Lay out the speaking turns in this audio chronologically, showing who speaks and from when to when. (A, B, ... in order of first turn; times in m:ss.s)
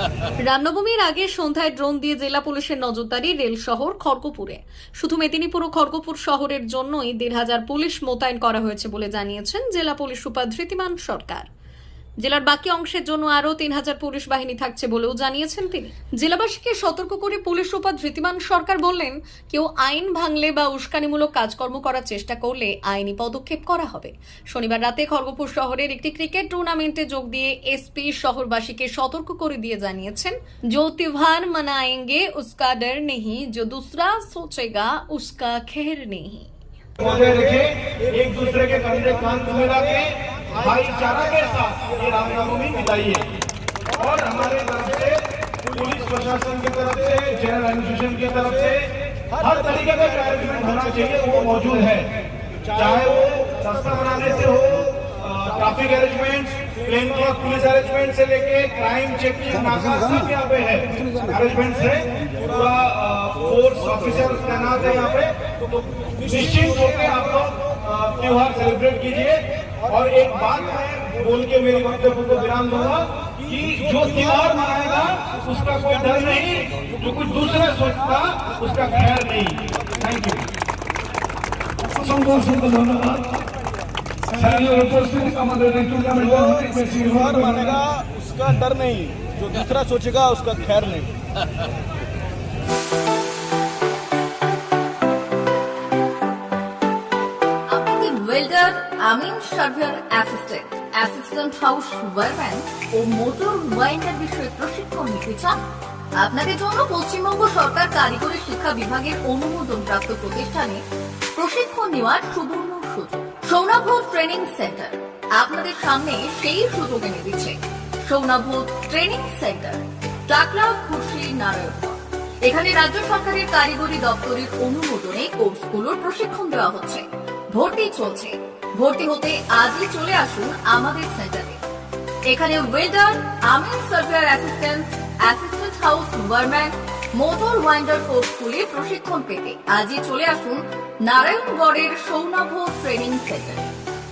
0:00.4-0:11.5 A
0:12.2-0:36.5 A
0:37.0-0:43.3 B
0:43.9-1:20.4 B
1:22.1-1:23.2 C
1:24.3-1:25.2 B
1:24.7-1:31.1 C
1:26.0-1:27.5 B
1:37.7-1:45.6 D
1:46.2-1:50.8 D
1:51.4-2:11.6 D
2:12.3-2:23.7 D